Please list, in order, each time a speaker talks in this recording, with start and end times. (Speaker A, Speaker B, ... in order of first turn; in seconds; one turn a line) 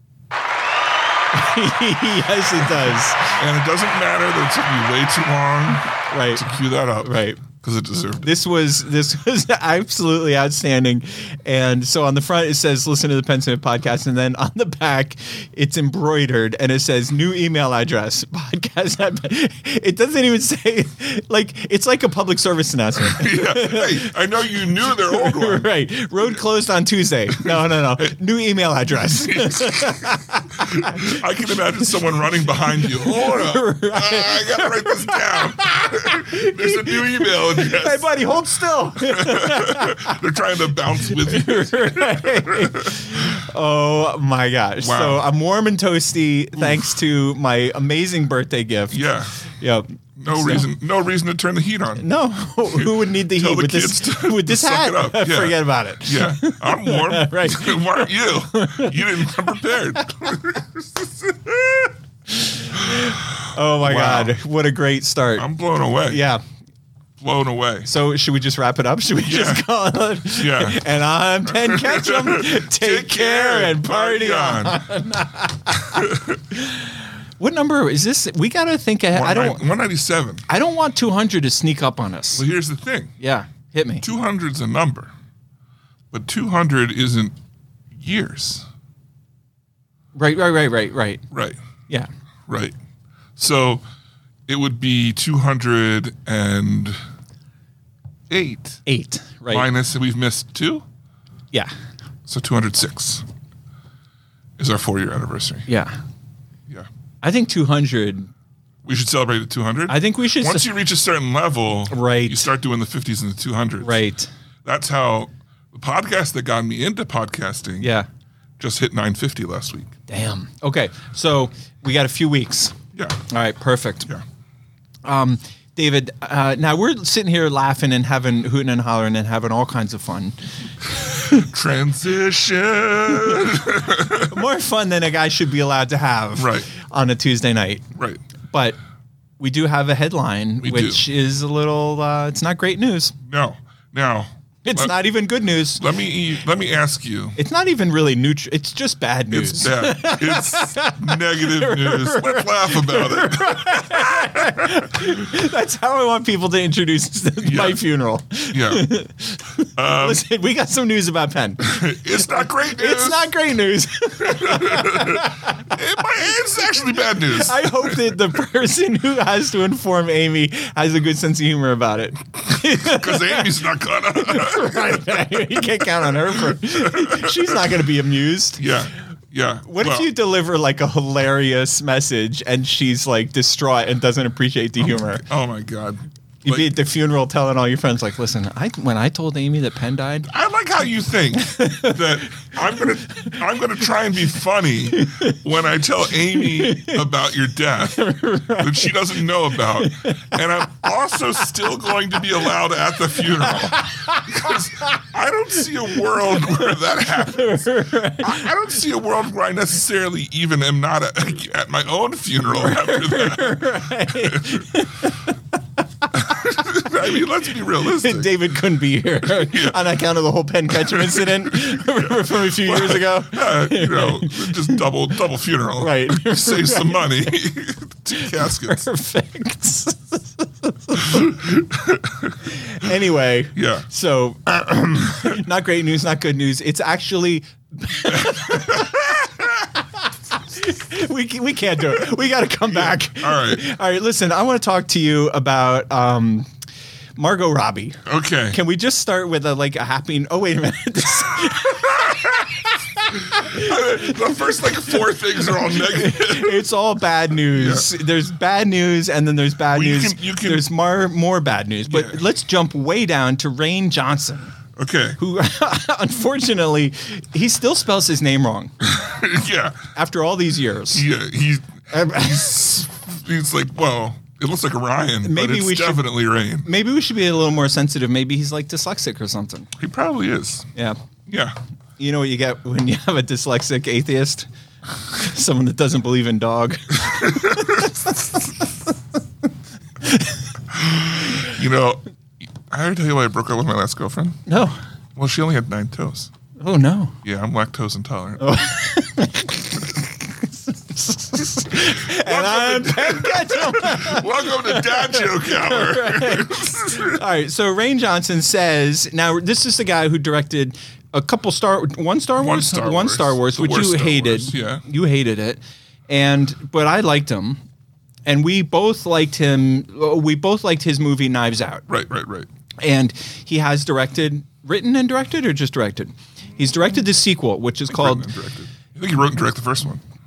Speaker A: 1.3-3.3
Speaker B: 3.3-8.3
Speaker A: 6.1-6.5
Speaker A: 7.0-7.4
Speaker A: 8.2-31.2
Speaker B: 23.0-26.4
Speaker B: 27.4-28.1
Speaker B: 28.9-38.2
Speaker A: 32.7-40.2
Speaker B: 39.0-43.2
Speaker A: 41.0-50.7
Speaker B: 44.8-45.3
Speaker B: 48.9-49.4
Speaker B: 50.1-52.1
Speaker A: 52.0-59.5
Speaker B: 52.7-61.9
Speaker A: 62.3-65.5
Speaker B: 62.8-64.3
Speaker B: 65.3-66.2
Speaker A: 66.0-66.4
Speaker B: 67.2-67.9
Speaker A: 67.8-79.6
Speaker B: 69.2-69.6
Speaker B: 70.3-70.8
Speaker B: 71.4-74.9
Speaker B: 75.8-76.4
Speaker B: 79.1-80.4
Speaker A: 80.5-82.4
Speaker B: 82.3-83.1
Speaker A: 83.2-84.0
Speaker B: 84.0-85.1
Speaker B: 86.1-87.3
Speaker B: 87.9-88.7
Speaker A: 90.1-91.2
Speaker B: 91.3-91.6
Speaker B: 92.5-92.7
Speaker B: 93.3-93.8
Speaker B: 94.5-97.0
Speaker B: 98.3-98.8
Speaker A: 98.8-99.7
Speaker B: 99.5-100.8
Speaker B: 102.3-103.2
Speaker B: 104.6-105.7
Speaker A: 105.7-106.0
Speaker A: 107.2-108.3
Speaker B: 108.8-114.0
Speaker A: 109.9-110.7
Speaker A: 111.9-112.5
Speaker A: 113.8-114.3
Speaker B: 114.6-117.9
Speaker A: 117.8-118.1
Speaker B: 118.6-120.0
Speaker A: 120.1-122.7
Speaker B: 122.9-123.2
Speaker A: 123.3-124.1
Speaker A: 125.0-130.3
Speaker B: 131.2-134.4
Speaker A: 134.3-137.8
Speaker B: 136.3-136.7
Speaker B: 137.9-138.2
Speaker A: 138.5-138.8
Speaker A: 139.4-143.1
Speaker B: 140.6-141.0
Speaker B: 143.2-144.9
Speaker A: 144.6-145.8
Speaker B: 145.8-147.4
Speaker A: 147.3-165.7
Speaker B: 149.3-154.8
Speaker B: 157.4-157.8
Speaker B: 158.5-158.9
Speaker B: 159.8-160.2
Speaker B: 161.6-163.3
Speaker B: 164.2-168.1
Speaker A: 167.3-178.7
Speaker B: 172.7-177.7
Speaker B: 178.6-180.1
Speaker A: 179.7-185.2
Speaker B: 184.8-186.7
Speaker A: 186.4-190.3
Speaker B: 190.3-214.7
Speaker A: 191.4-192.5
Speaker A: 194.9-195.4
Speaker A: 196.3-197.0
Speaker A: 197.9-199.0
Speaker A: 199.5-200.8
Speaker A: 203.3-205.0
Speaker A: 205.9-208.5
Speaker A: 212.5-215.3
Speaker A: 216.0-216.4
Speaker B: 216.1-218.3
Speaker A: 217.8-224.8
Speaker B: 219.2-219.9
Speaker B: 220.7-228.8
Speaker A: 225.8-227.3
Speaker A: 228.2-231.3
Speaker B: 231.0-232.3
Speaker A: 232.5-246.5
Speaker B: 233.6-233.9
Speaker B: 238.1-239.2
Speaker B: 242.8-243.6
Speaker A: 247.2-254.3
Speaker B: 248.1-248.6
Speaker B: 251.8-252.4
Speaker B: 253.2-256.6
Speaker A: 254.9-264.5
Speaker B: 257.5-257.9
Speaker B: 259.7-260.7
Speaker B: 261.9-262.2
Speaker B: 264.8-265.2
Speaker A: 265.2-268.7
Speaker B: 268.8-269.8
Speaker A: 269.9-271.1
Speaker B: 270.9-276.7
Speaker A: 271.9-272.6
Speaker A: 275.2-276.1
Speaker A: 276.6-279.7
Speaker B: 279.8-280.7
Speaker B: 281.3-281.6
Speaker A: 282.0-284.5
Speaker A: 285.1-288.5
Speaker B: 287.1-287.9
Speaker A: 290.0-290.3
Speaker B: 290.7-294.4
Speaker A: 294.5-294.8
Speaker B: 295.1-296.3
Speaker A: 296.6-297.1
Speaker B: 297.2-298.6
Speaker A: 298.4-317.6
Speaker B: 301.7-307.2
Speaker B: 312.4-314.8
Speaker A: 318.2-321.8
Speaker B: 321.9-322.5
Speaker A: 322.8-328.3
Speaker B: 327.9-330.0